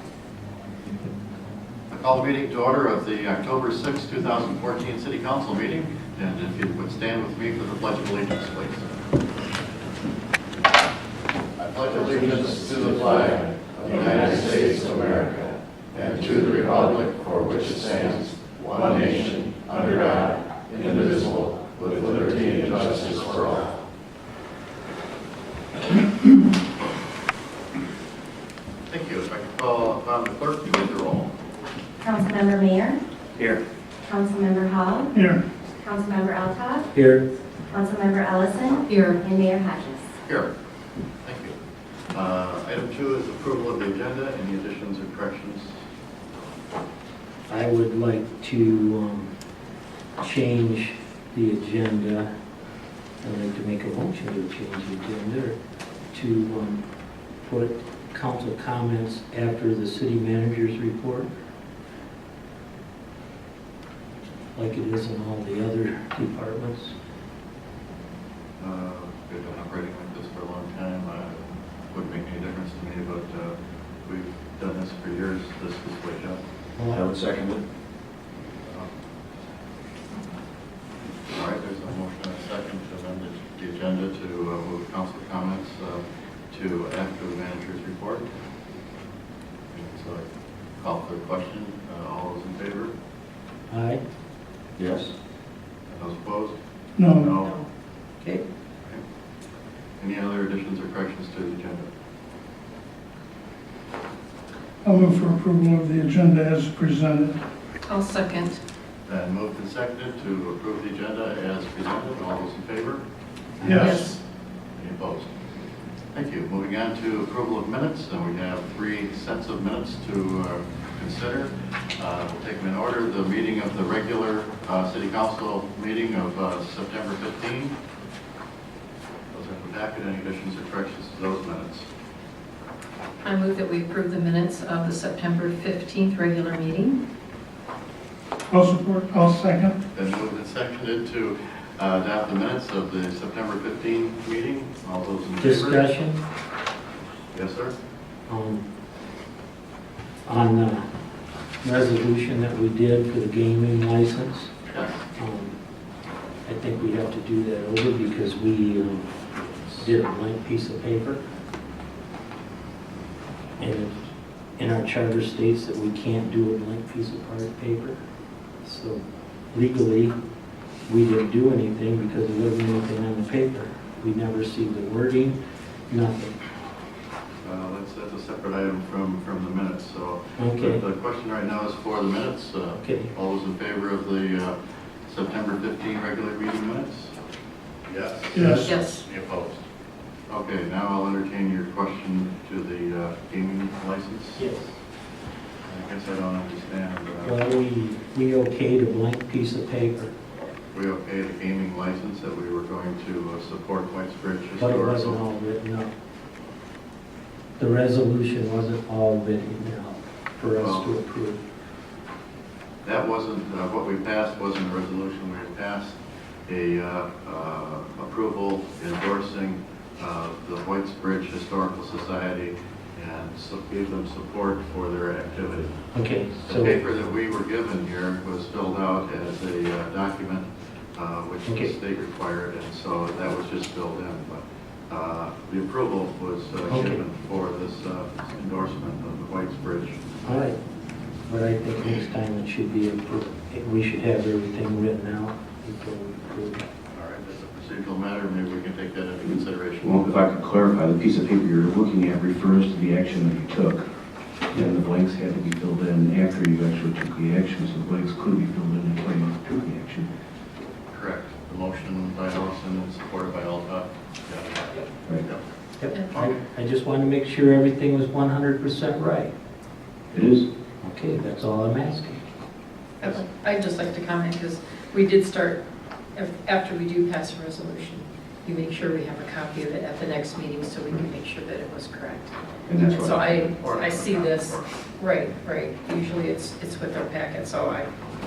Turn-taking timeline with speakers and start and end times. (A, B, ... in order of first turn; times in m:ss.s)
0:01.9-0:09.0 A
0:11.6-0:23.7 A
0:28.9-0:31.3 A
0:32.0-0:33.0 B
0:34.0-0:35.1 B
0:35.1-0:35.4 C
0:35.8-0:36.9 B
0:36.9-0:37.2 D
0:37.6-0:40.1 B
0:38.9-0:39.2 E
0:40.2-0:40.5 A
0:41.2-0:41.6 A
0:42.1-0:45.7 A
0:47.5-0:49.3 D
0:50.2-0:52.3 D
0:53.2-0:55.6 D
0:56.1-0:56.8 D
0:57.4-1:01.3 D
1:04.5-1:06.9 D
1:08.6-1:11.4 A
1:11.9-1:13.5 A
1:14.0-1:16.4 A
1:16.8-1:17.0 D
1:16.9-1:17.6 F
1:18.6-1:18.9 A
1:21.3-1:28.3 A
1:29.7-1:30.2 A
1:30.8-1:32.9 A
1:33.7-1:34.0 D
1:34.8-1:35.1 F
1:35.9-1:37.5 A
1:37.0-1:37.3 C
1:40.0-1:41.9 A
1:44.8-1:47.4 C
1:47.9-1:48.6 E
1:49.0-1:53.0 A
1:53.6-1:54.1 A
1:53.6-1:54.2 E
1:53.7-1:54.0 C
1:54.8-1:55.3 A
1:56.1-2:07.8 A
2:09.3-2:11.9 A
2:13.2-2:17.0 E
2:18.5-2:19.8 C
2:19.9-2:25.9 A
2:25.4-2:26.2 D
2:27.3-2:27.8 A
2:28.3-2:28.6 D
2:30.2-2:30.8 D
2:31.6-2:34.5 D
2:34.7-2:35.0 A
2:35.2-2:35.6 D
2:36.4-2:41.2 D
2:43.6-2:44.0 D
2:44.6-2:48.0 D
2:48.6-2:50.1 D
2:50.8-2:55.4 D
2:55.9-2:56.4 D
2:57.4-3:07.1 A
3:00.4-3:00.8 D
3:02.7-3:03.1 D
3:07.8-3:09.6 A
3:08.3-3:08.7 C
3:08.3-3:08.7 D
3:08.6-3:09.0 E
3:10.3-3:14.4 A
3:14.4-3:14.7 D
3:15.6-3:17.4 A
3:17.2-3:20.1 D
3:20.7-3:25.2 A
3:24.6-3:25.9 D
3:27.6-3:31.4 D
3:30.6-3:30.9 A
3:32.8-3:45.8 A
3:45.9-3:46.8 D
3:46.4-4:00.0 A
3:51.4-3:51.7 D
3:56.7-3:57.0 D
4:00.2-4:00.6 D
4:01.3-4:06.6 D
4:01.8-4:02.1 A
4:06.9-4:10.2 A
4:09.8-4:13.9 F
4:14.5-4:20.1 F
4:20.9-4:25.4 A
4:25.8-4:29.3 D
4:30.1-4:30.5 F
4:30.8-4:32.2 D
4:33.0-4:35.6 E
4:36.1-4:47.9 E
4:42.7-4:43.4 F
4:43.3-4:44.6 A